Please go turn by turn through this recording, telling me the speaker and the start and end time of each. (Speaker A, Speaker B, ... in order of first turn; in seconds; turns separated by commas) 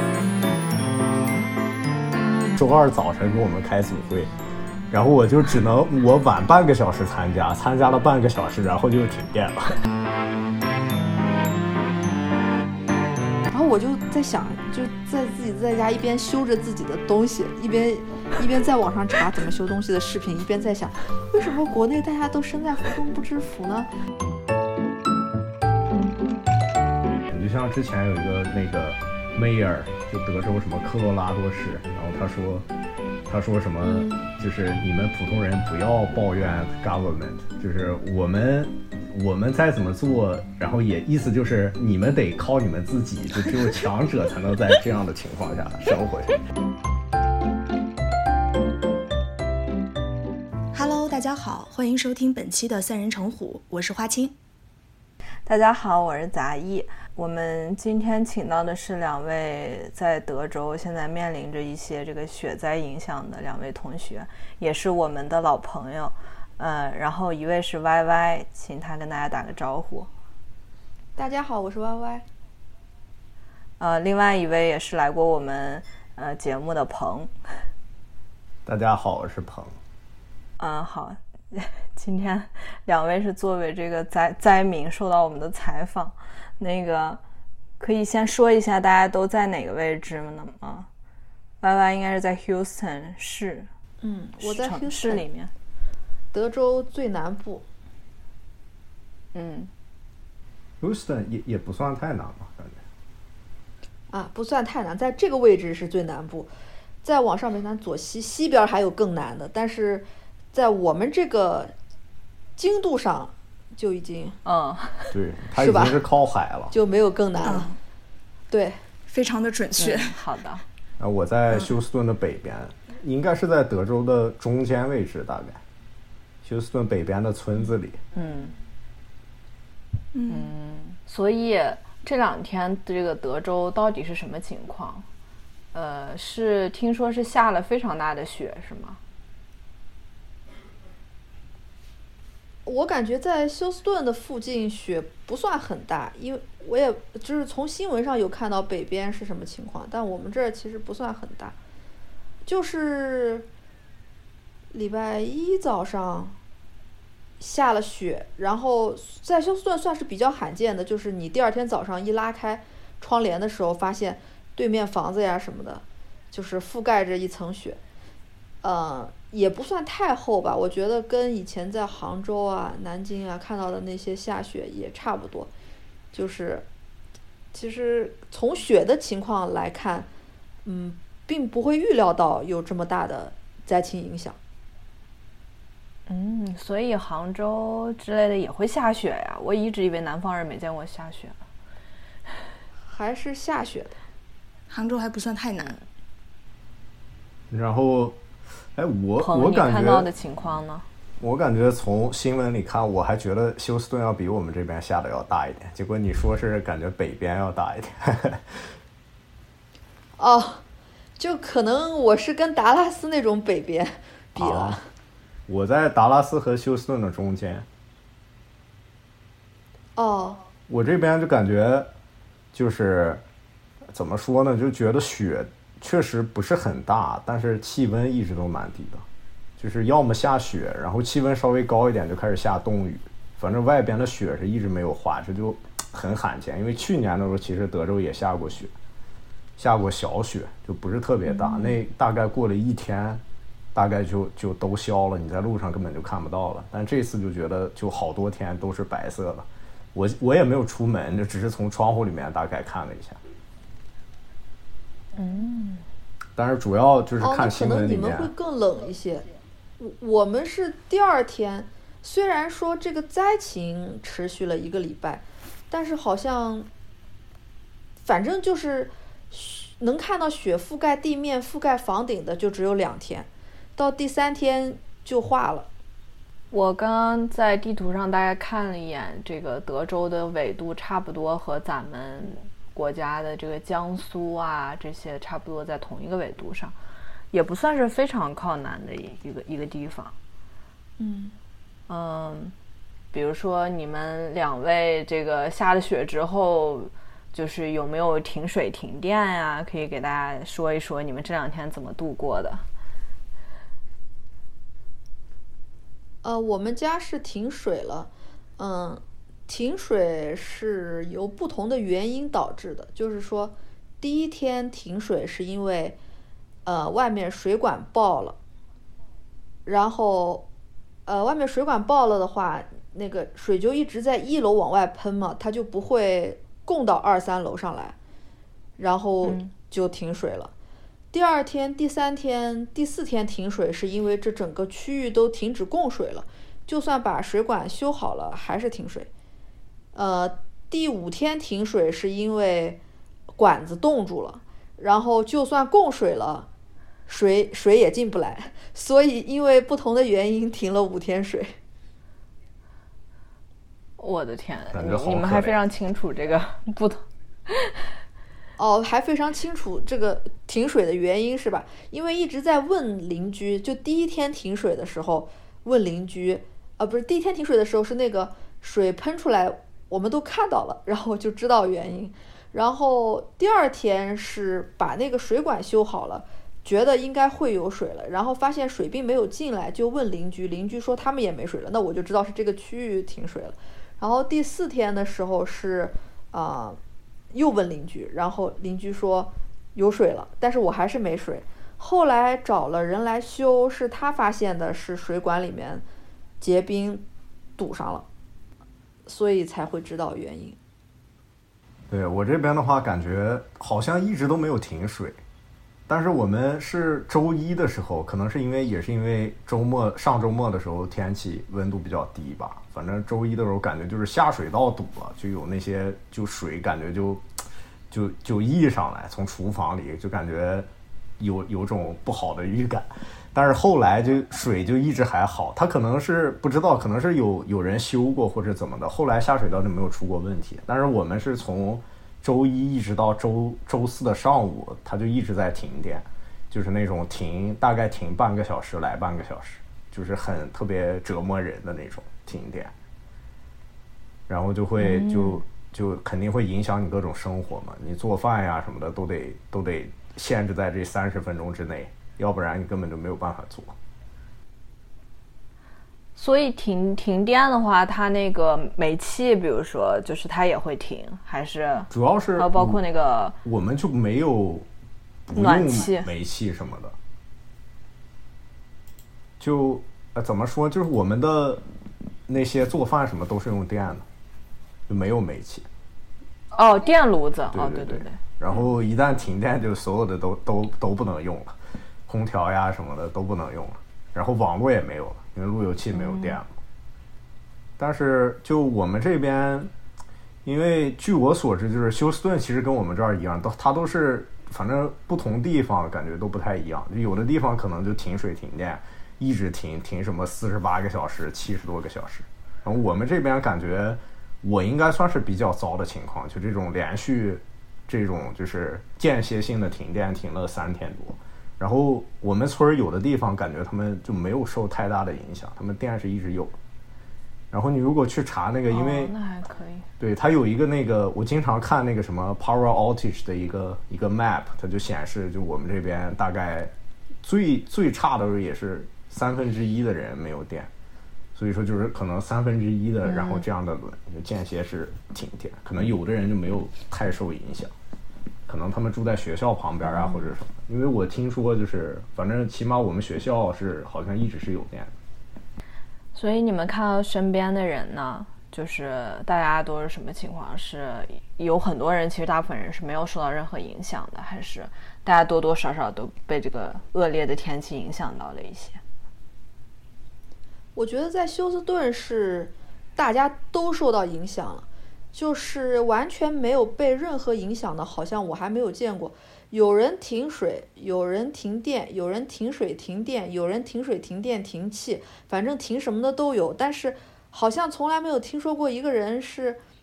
Speaker A: 2.5-4.3, Speaker A: 4.9-9.8, Speaker B: 13.5-23.9, Speaker A: 27.3-32.7, Speaker A: 33.3-46.4, Speaker C: 50.7-54.4, Speaker D: 55.5-70.1, Speaker B: 71.2-72.2, Speaker D: 73.8-77.6, Speaker A: 78.7-79.8, Speaker D: 80.6-87.2, Speaker D: 87.8-90.9, Speaker D: 91.6-93.7, Speaker B: 94.0-95.2, Speaker D: 94.4-95.5, Speaker B: 96.3-97.6, Speaker D: 99.3-99.7, Speaker A: 100.8-102.8, Speaker B: 104.1-106.5, Speaker B: 107.0-111.7, Speaker B: 112.6-114.4, Speaker D: 114.4-115.2, Speaker A: 115.1-116.7, Speaker B: 115.6-116.0, Speaker B: 116.7-117.7, Speaker C: 117.4-117.8, Speaker B: 118.5-118.8, Speaker C: 119.1-120.2, Speaker D: 119.8-120.6, Speaker A: 121.0-125.6, Speaker A: 126.4-128.0, Speaker D: 128.1-128.5, Speaker C: 130.1-130.5, Speaker D: 130.3-135.1, Speaker D: 135.7-139.0, Speaker B: 142.6-151.6, Speaker B: 152.4-153.5, Speaker B: 154.7-156.4, Speaker B: 157.4-167.8, Speaker B: 168.6-175.5, Speaker B: 176.1-176.7, Speaker B: 177.5-180.1, Speaker B: 180.6-184.4, Speaker D: 186.1-191.4, Speaker B: 192.9-194.0, Speaker C: 194.7-195.8, Speaker A: 197.5-198.2, Speaker A: 198.7-200.1, Speaker D: 199.2-200.8, Speaker A: 201.2-208.8, Speaker B: 210.2-210.6, Speaker B: 211.2-214.9, Speaker A: 214.3-214.8, Speaker A: 215.5-217.7, Speaker B: 219.9-220.4, Speaker A: 220.7-221.9, Speaker A: 222.5-223.2, Speaker A: 223.9-229.1, Speaker A: 229.6-238.7, Speaker A: 239.6-243.2, Speaker D: 241.3-241.7, Speaker A: 243.7-253.2, Speaker D: 255.1-255.8, Speaker A: 256.4-258.3, Speaker B: 257.2-259.3, Speaker B: 259.8-266.7, Speaker B: 268.0-275.7, Speaker D: 276.5-286.8, Speaker D: 287.3-290.1, Speaker B: 291.0-291.3, Speaker D: 291.9-292.5, Speaker D: 293.1-302.6, Speaker B: 306.2-316.0, Speaker B: 316.6-318.4, Speaker B: 319.6-320.4, Speaker B: 321.1-327.9, Speaker B: 328.8-330.5, Speaker D: 329.2-329.5, Speaker B: 331.1-339.1, Speaker B: 339.9-342.8, Speaker B: 343.4-346.5, Speaker B: 347.1-351.6, Speaker D: 354.0-357.9, Speaker A: 354.7-355.6, Speaker B: 358.6-386.8, Speaker B: 387.3-395.8, Speaker B: 396.4-397.0, Speaker B: 397.6-398.1, Speaker B: 399.1-400.6, Speaker A: 401.9-405.2, Speaker A: 405.9-417.2, Speaker A: 417.9-420.7, Speaker A: 421.2-442.7, Speaker A: 444.3-453.7, Speaker D: 444.8-445.4, Speaker D: 456.1-463.3, Speaker A: 461.9-462.8, Speaker A: 463.4-464.7, Speaker A: 465.3-466.9, Speaker D: 465.3-466.1, Speaker A: 469.4-471.6, Speaker A: 472.3-474.0, Speaker A: 474.9-475.7, Speaker D: 476.5-478.7, Speaker A: 477.5-486.5, Speaker D: 485.9-486.4, Speaker A: 487.8-489.7, Speaker A: 490.4-516.5, Speaker A: 517.5-519.1, Speaker D: 518.7-519.9, Speaker A: 520.0-530.7, Speaker A: 531.3-537.7, Speaker A: 538.5-544.9, Speaker D: 546.1-558.8, Speaker B: 560.7-579.6